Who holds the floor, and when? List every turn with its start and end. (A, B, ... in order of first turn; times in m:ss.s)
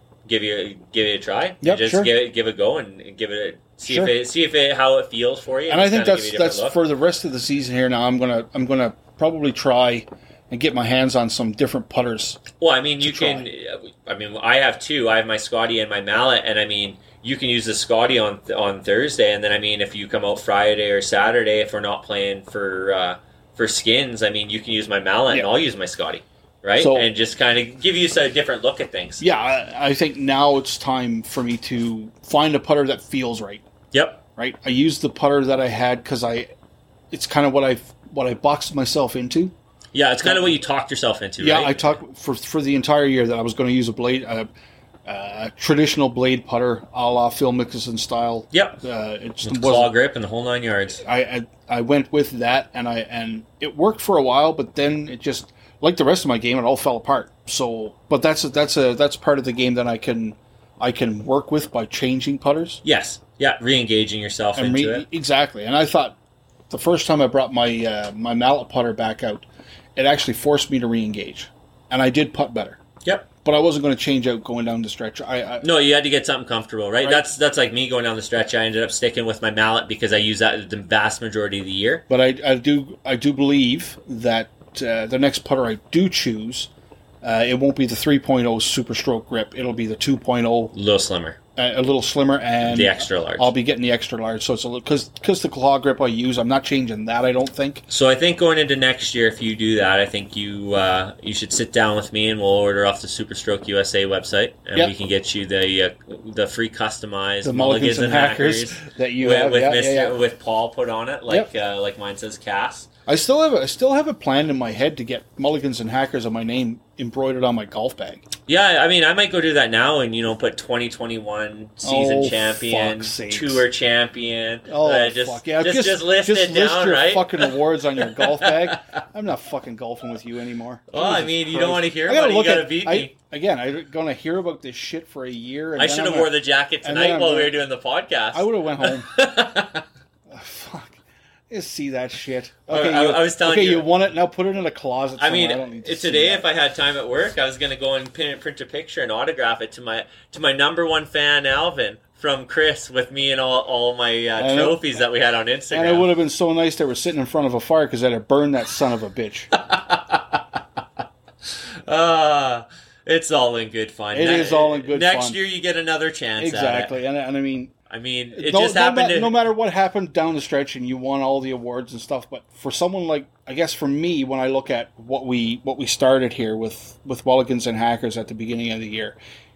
0:00.2-0:06.8 A
0:01.6-0:02.1 B
0:03.8-0:04.1 B
0:05.7-0:12.4 B
0:12.6-0:29.2 A
0:13.0-0:13.4 B
0:26.8-0:27.1 B
0:29.2-0:33.6 B
0:33.9-0:34.2 A
0:34.4-0:36.5 B
0:37.1-0:39.5 B
0:39.9-0:42.0 A
0:40.2-0:40.5 B
0:41.4-0:44.5 B
0:45.0-0:49.9 B
0:48.5-0:48.8 A
0:49.4-0:51.0 A
0:51.0-1:02.8 B
1:02.8-1:05.0 A
1:04.6-1:06.2 B
1:06.7-1:12.8 B
1:13.4-1:15.7 B
1:15.6-1:22.0 A
1:17.0-1:17.3 B
1:22.1-1:26.7 B
1:27.2-1:30.7 B
1:30.7-1:31.4 A
1:31.6-1:37.8 B
1:32.6-1:33.5 A
1:37.9-1:52.9 A
1:47.4-1:50.2 B
1:53.1-1:58.2 B
1:58.5-2:08.8 A
2:01.8-2:03.6 B
2:04.7-2:17.5 B
2:10.9-2:13.1 A
2:15.8-2:19.8 A
2:18.3-2:19.1 B
2:20.3-2:21.0 B
2:21.5-2:26.4 B
2:22.7-2:23.9 A
2:25.2-2:36.1 A
2:34.4-2:34.8 B
2:35.7-2:39.5 B
2:39.5-2:40.6 A
2:41.8-2:47.0 A
2:44.1-2:45.4 B
2:46.4-2:47.7 B
2:47.9-2:49.4 A
2:48.3-2:59.2 B